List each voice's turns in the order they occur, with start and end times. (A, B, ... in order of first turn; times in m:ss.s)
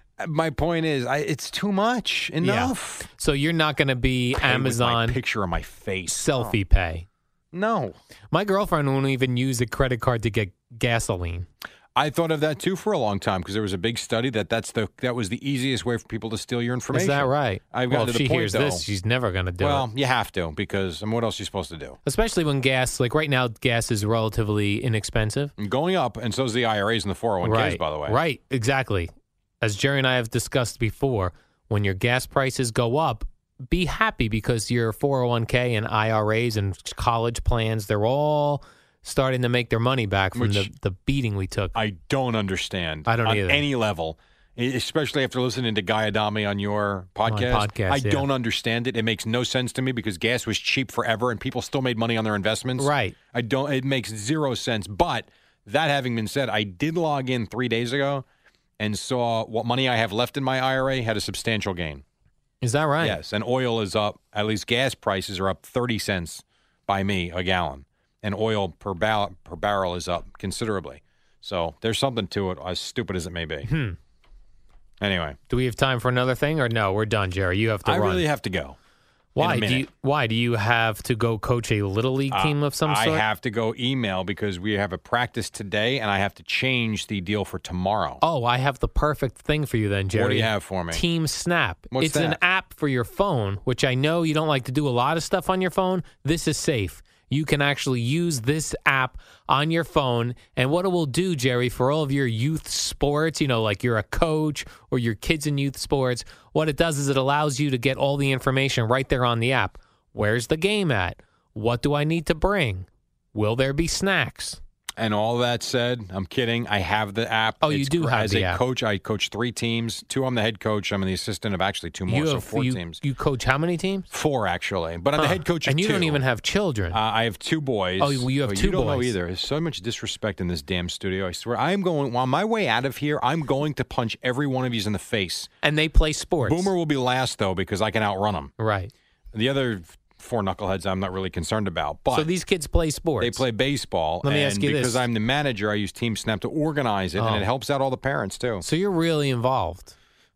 0:00.2-0:03.1 A
0:02.4-0:05.2 B
0:04.4-0:06.6 A
0:06.1-0:07.1 B
0:07.5-0:08.0 A
0:08.3-0:11.5 B
0:12.0-0:18.8 A
0:16.9-0:19.9 B
0:19.6-0:22.0 A
0:22.0-0:25.5 B
0:25.6-0:28.2 A
0:27.4-0:41.8 B
0:40.4-0:40.7 A
0:41.8-0:58.2 A
0:43.1-0:43.6 B
0:47.3-0:48.3 B
0:52.8-0:53.2 B
0:58.8-1:02.0 A
1:02.6-1:03.2 B
1:03.0-1:13.7 A
1:13.7-1:14.0 B
1:15.0-1:15.4 A
1:15.5-1:18.2 B
1:17.8-1:18.8 A
1:19.4-1:23.2 B
1:19.4-1:19.9 A
1:22.3-1:28.2 A
1:28.2-1:54.6 B
1:30.1-1:31.0 A
1:31.9-1:32.4 A
1:55.0-2:03.0 A
1:57.6-1:58.6 B
2:02.1-2:04.1 B
2:04.1-2:06.2 A
2:05.2-2:07.0 B
2:06.9-2:15.5 A
2:08.0-2:09.1 B
2:15.6-2:16.7 B
2:16.4-2:18.5 A
2:18.6-2:18.9 B
2:19.3-2:22.3 A
2:22.1-2:23.4 B
2:23.2-2:28.6 A
2:24.2-2:25.0 B
2:27.2-2:27.5 B
2:28.6-2:29.9 B